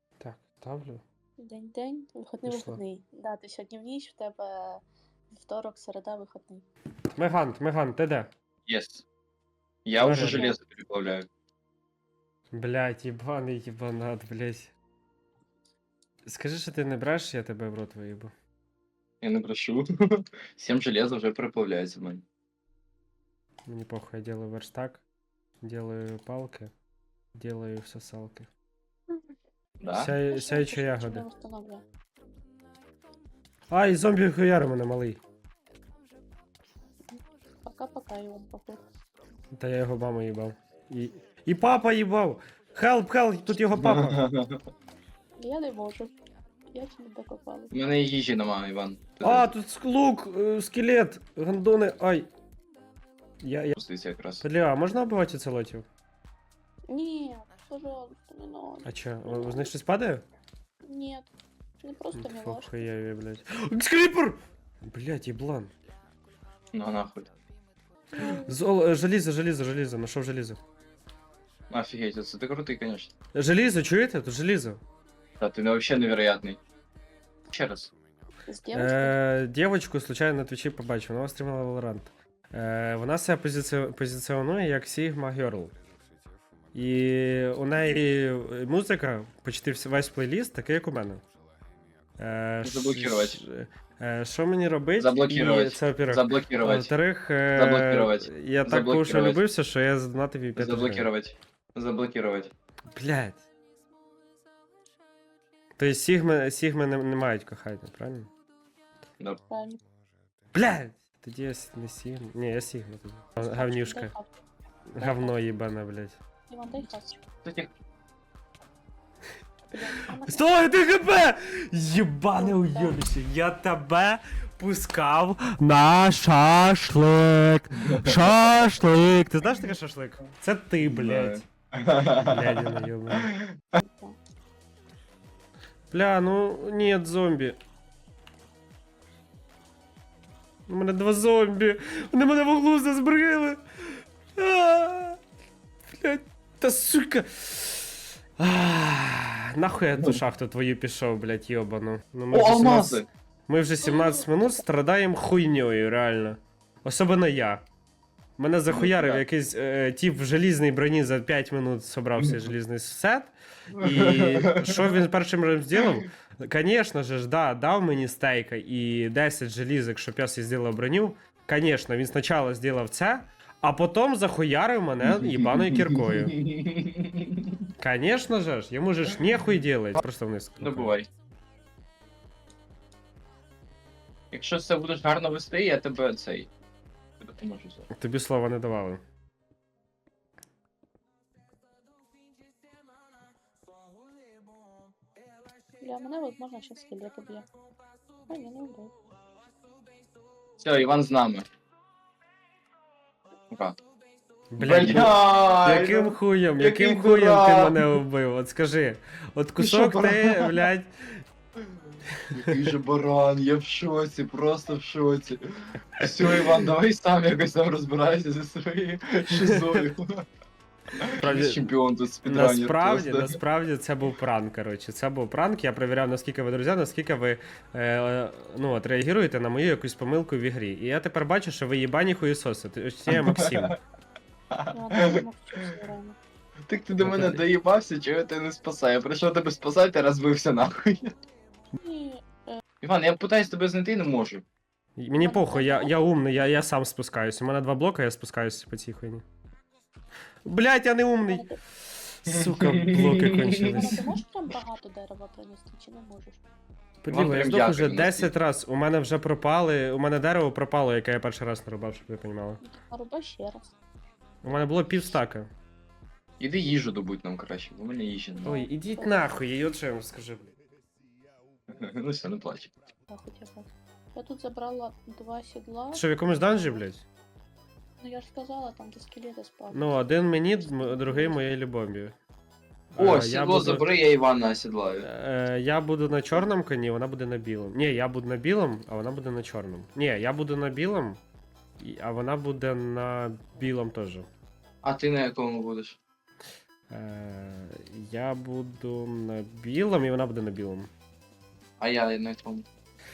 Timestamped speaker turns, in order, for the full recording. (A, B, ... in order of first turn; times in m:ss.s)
0:00.2-0:01.0 A
0:01.4-0:06.7 B
0:02.5-0:02.8 A
0:07.2-0:08.3 A
0:08.7-0:09.0 C
0:09.8-0:11.3 C
0:10.0-0:10.6 A
0:10.1-0:10.5 B
0:12.5-0:14.7 A
0:16.3-0:18.3 A
0:19.2-0:22.2 C
0:23.7-0:25.0 A
0:25.6-0:26.7 A
0:27.4-0:28.5 A
0:29.8-0:30.1 C
0:29.9-0:31.3 A
0:30.3-0:31.8 B
0:33.7-0:35.2 A
0:37.6-0:38.8 B
0:39.6-0:44.2 A
0:43.8-0:44.6 C
0:45.4-0:46.1 B
0:46.7-0:47.7 B
0:47.7-0:49.5 C
0:49.2-0:52.3 A
0:53.4-0:53.8 A
0:53.8-0:54.4 C
0:54.4-0:55.8 A
0:56.9-0:59.7 B
0:58.8-1:00.2 A
1:00.8-1:02.9 B
1:02.2-1:05.7 A
1:06.7-1:07.3 C
1:08.2-1:08.6 B
1:08.2-1:10.6 A
1:11.7-1:13.1 C
1:13.3-1:14.8 A
1:15.4-1:16.6 C
1:17.5-1:17.9 C
1:18.5-1:19.2 B
1:18.7-1:25.7 A
1:26.7-1:31.2 A
1:32.2-1:41.1 A
1:32.6-1:33.4 C
1:35.0-1:36.9 C
1:37.5-1:39.4 C
1:40.6-1:42.5 C
1:43.0-1:43.4 A
1:45.8-1:48.3 A
1:49.5-1:49.8 B
1:50.5-1:54.1 A
1:53.4-1:54.4 B
1:54.9-1:56.2 A
1:55.0-1:55.4 B
1:56.5-1:57.2 B
1:57.4-1:57.7 C
1:59.7-2:00.4 B
2:00.2-2:11.4 A
2:02.4-2:03.0 B
2:10.8-2:12.6 C
2:12.2-2:13.3 A
2:13.8-2:14.2 B
2:15.9-2:17.6 A
2:20.7-2:23.6 A
2:24.4-2:25.2 A
2:26.0-2:37.6 A
2:32.3-2:33.1 C
2:33.9-2:34.2 B
2:38.4-2:56.4 A
2:38.7-2:39.2 C
2:43.8-2:44.8 C
2:55.0-2:57.6 C
2:57.8-3:00.9 A
3:00.6-3:01.1 C
3:04.3-3:06.5 C
3:07.2-3:07.9 C
3:08.0-3:09.0 A
3:15.8-3:17.5 B
3:18.3-3:18.9 B
3:20.6-3:21.5 C
3:23.5-3:23.8 C
3:24.5-3:31.2 A
3:24.6-3:27.8 C
3:29.6-3:30.7 C
3:32.3-3:35.4 C
3:36.0-3:40.2 C
3:36.0-3:36.6 A
3:39.4-3:39.8 A
3:41.0-3:43.4 C
3:41.2-3:41.7 A
3:42.2-3:53.8 A
3:53.1-3:53.8 C
3:54.5-3:55.7 C
3:54.7-3:56.2 B
3:56.7-4:01.1 C
3:57.0-3:57.4 A
4:01.8-4:02.6 B
4:02.8-4:04.4 C
4:05.0-4:09.2 A
4:05.2-4:06.0 B
4:10.4-4:11.5 A
4:11.2-4:11.6 B
4:12.2-4:14.0 A
4:12.3-4:13.9 C
4:13.6-4:16.4 B
4:17.0-4:22.6 A
4:17.1-4:18.3 C
4:22.6-4:23.8 B
4:24.4-4:25.5 A
4:26.4-4:28.7 C
4:28.4-4:30.5 A
4:28.9-4:29.2 B
4:31.7-4:32.7 C
4:33.1-4:36.0 B
4:35.9-4:37.0 A
4:38.0-4:40.0 B
4:39.7-4:42.2 A
4:40.6-4:41.4 B
4:42.9-4:43.9 A
4:43.0-4:45.1 C
4:45.0-4:51.2 A
4:51.8-4:54.3 A
4:54.8-4:56.0 C
4:56.9-5:00.9 A
5:01.8-5:02.7 C